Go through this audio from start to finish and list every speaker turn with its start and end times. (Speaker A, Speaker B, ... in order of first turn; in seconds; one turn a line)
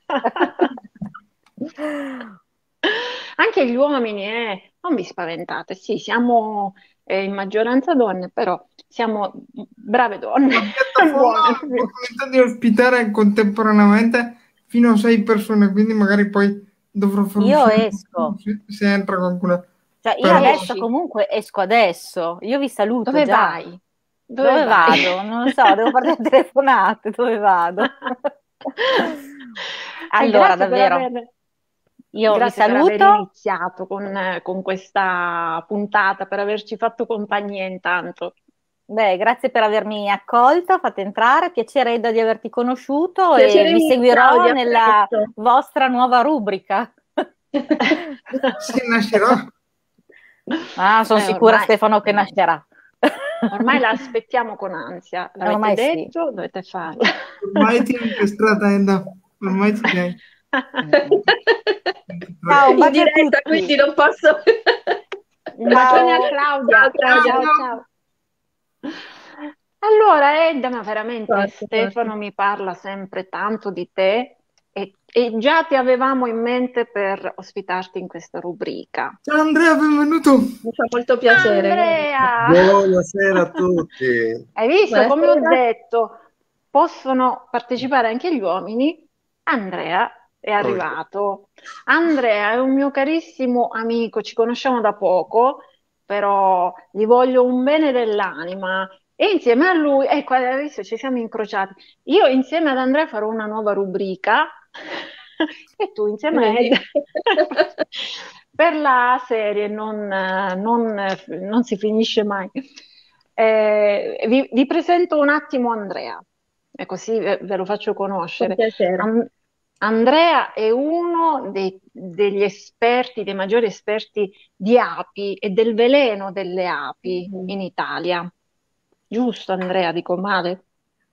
Speaker A: 0.1-0.7
Speaker A: 2.9-11.9
Speaker B: 10.5-19.7
Speaker C: 17.4-18.3
Speaker C: 20.0-23.6
Speaker B: 20.2-20.7
Speaker A: 20.3-20.9
Speaker A: 23.1-25.1
Speaker C: 24.4-28.2
Speaker A: 28.8-29.1
Speaker C: 30.1-31.1
Speaker A: 30.2-31.3
Speaker C: 32.1-33.2
Speaker A: 32.3-38.3
Speaker C: 38.9-47.0
Speaker D: 43.4-45.3
Speaker D: 47.5-48.0
Speaker B: 48.4-49.5
Speaker C: 50.8-53.7
Speaker A: 51.1-52.3
Speaker A: 53.5-57.3
Speaker C: 55.4-56.1
Speaker B: 57.4-60.2
Speaker C: 60.8-61.2
Speaker D: 60.9-61.8
Speaker B: 62.1-62.7
Speaker C: 62.5-63.7
Speaker D: 62.7-65.0
Speaker A: 65.5-67.8
Speaker D: 65.7-67.5
Speaker C: 65.8-66.2
Speaker B: 67.1-67.7
Speaker A: 69.8-79.2
Speaker D: 71.3-72.1
Speaker B: 79.3-80.5
Speaker D: 80.6-82.1
Speaker A: 81.3-82.8
Speaker E: 82.4-84.4
Speaker A: 84.6-86.2
Speaker D: 84.9-85.6
Speaker A: 86.7-112.5
Speaker E: 90.6-90.9
Speaker D: 106.3-106.7
Speaker D: 107.3-107.6
Speaker A: 113.4-116.2
Speaker A: 116.8-119.3
Speaker D: 118.4-119.1
Speaker A: 119.8-128.3
Speaker D: 127.0-127.5
Speaker A: 129.1-130.6